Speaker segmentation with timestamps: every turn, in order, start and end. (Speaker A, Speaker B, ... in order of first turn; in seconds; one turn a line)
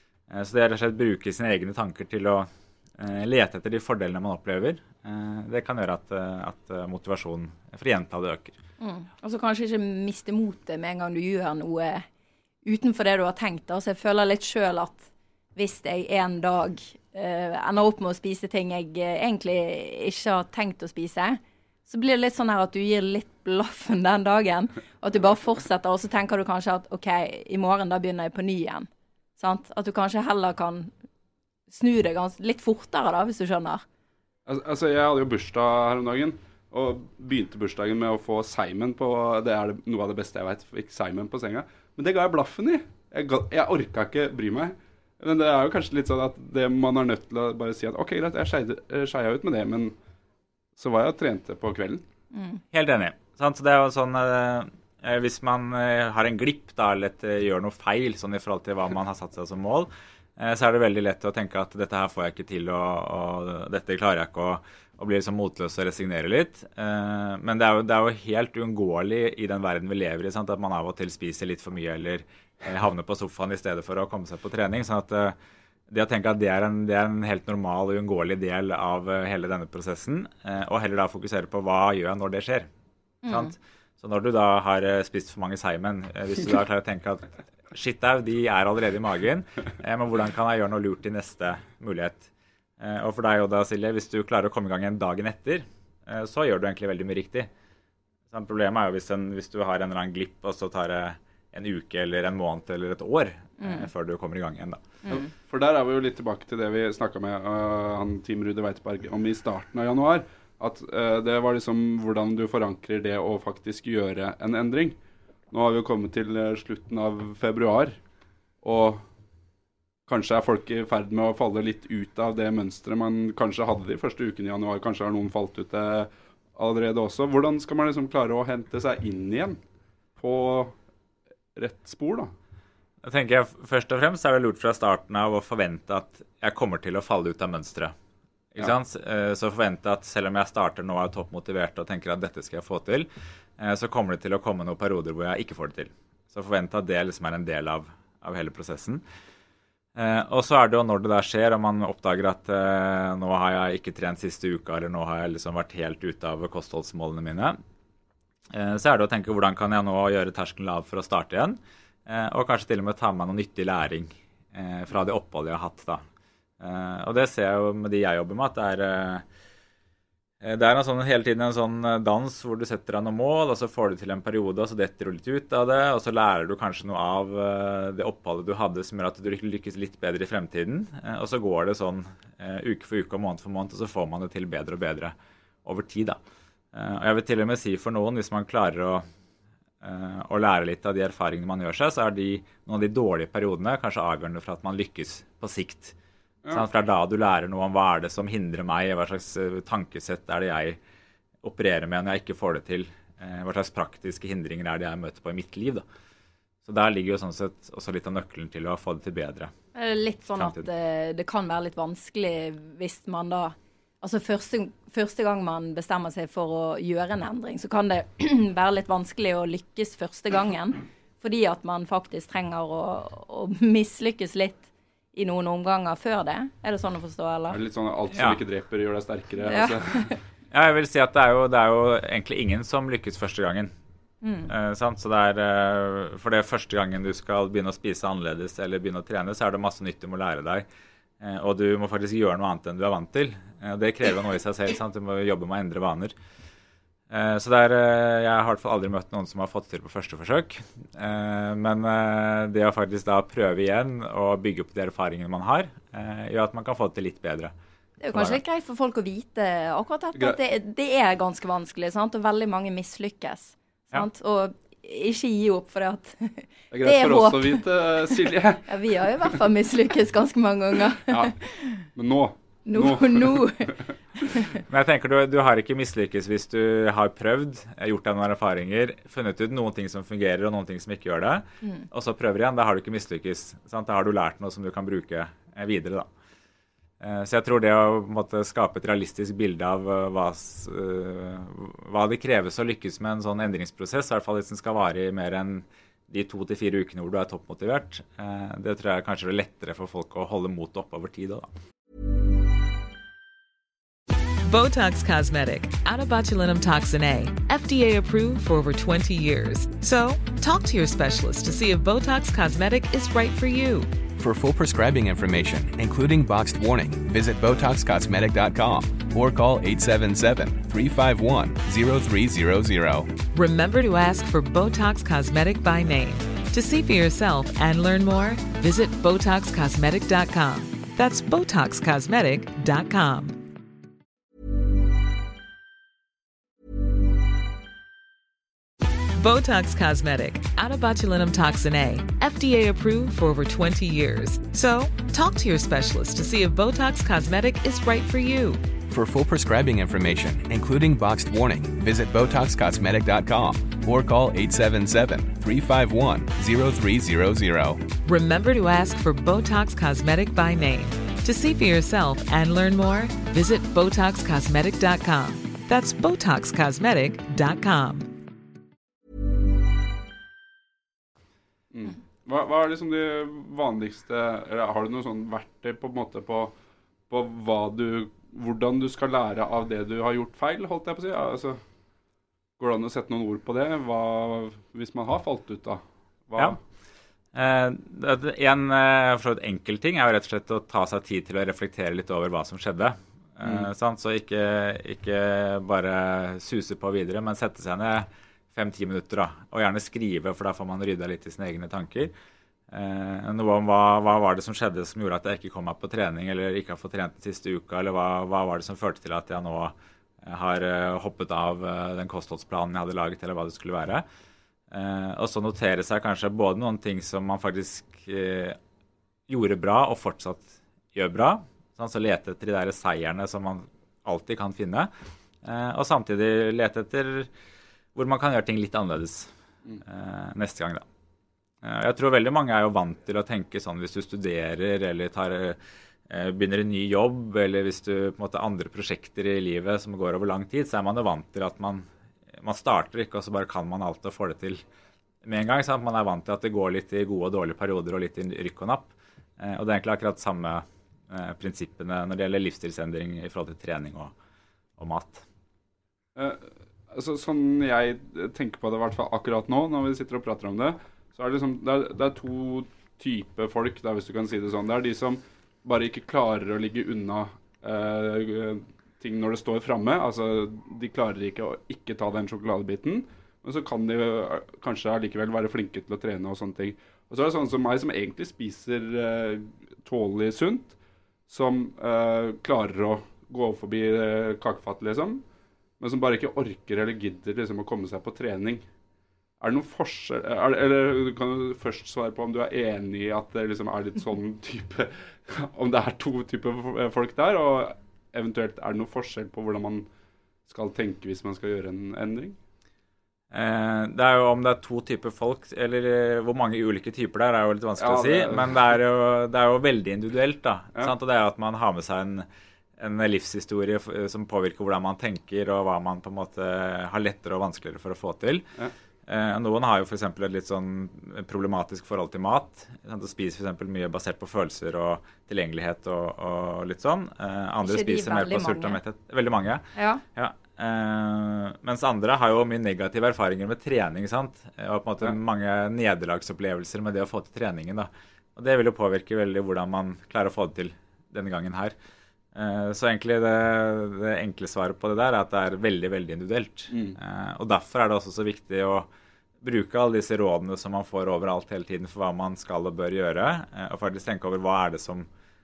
Speaker A: 0.3-8.6
Speaker B: 8.8-12.0
Speaker B: 12.6-30.9
Speaker B: 31.7-33.8
Speaker C: 34.5-50.0
Speaker C: 50.8-52.0
Speaker B: 52.3-52.6
Speaker A: 52.7-75.4
Speaker A: 75.9-82.7
Speaker B: 83.2-83.5
Speaker A: 83.3-97.5
Speaker A: 98.3-104.9
Speaker B: 103.6-103.9
Speaker C: 105.1-115.0
Speaker C: 115.5-118.0
Speaker C: 118.6-119.0
Speaker C: 120.1-129.6
Speaker C: 130.2-130.8
Speaker C: 131.6-132.3
Speaker A: 133.0-137.9
Speaker A: 138.5-149.0
Speaker A: 150.0-157.6
Speaker A: 158.5-166.0
Speaker A: 166.6-169.2
Speaker A: 170.4-185.1
Speaker A: 185.6-186.2
Speaker A: 186.7-189.0
Speaker A: 189.8-196.0
Speaker A: 196.5-200.8
Speaker A: 201.4-205.8
Speaker A: 206.6-209.5
Speaker B: 209.8-227.6
Speaker A: 210.4-210.7
Speaker C: 227.5-230.1
Speaker B: 229.5-230.2
Speaker A: 230.5-233.7
Speaker B: 234.2-234.5
Speaker A: 234.5-240.6
Speaker A: 241.2-246.1
Speaker A: 247.1-257.5
Speaker B: 258.0-271.9
Speaker A: 258.1-258.4
Speaker C: 266.7-268.8
Speaker C: 271.1-271.4
Speaker C: 271.9-273.7
Speaker B: 272.6-274.6
Speaker A: 274.7-286.1
Speaker A: 287.0-301.5
Speaker D: 304.4-313.9
Speaker E: 314.2-323.2
Speaker D: 323.3-333.4
Speaker D: 339.1-348.6
Speaker E: 348.9-357.9
Speaker D: 358.0-368.1
Speaker C: 371.7-376.5
Speaker C: 377.1-381.6
Speaker C: 382.6-386.6
Speaker A: 387.3-402.1
Speaker C: 393.4-393.7
Speaker A: 402.7-414.0
Speaker A: 414.7-418.6
Speaker A: 419.3-424.9
Speaker A: 425.4-427.3
Speaker A: 427.9-429.3
Speaker A: 429.8-430.8
Speaker A: 431.6-441.9
Speaker A: 442.4-444.6
Speaker A: 445.2-454.1
Speaker A: 454.8-455.2
Speaker C: 456.2-480.8
Speaker C: 481.3-485.2
Speaker C: 485.8-488.6
Speaker C: 489.4-499.9
Speaker C: 500.5-502.4
Speaker A: 503.3-512.2
Speaker C: 507.8-508.6
Speaker A: 512.8-518.5
Speaker A: 519.1-541.8
Speaker B: 527.6-528.8
Speaker B: 529.8-530.0
Speaker A: 542.3-548.9
Speaker C: 546.7-547.0
Speaker A: 549.4-555.1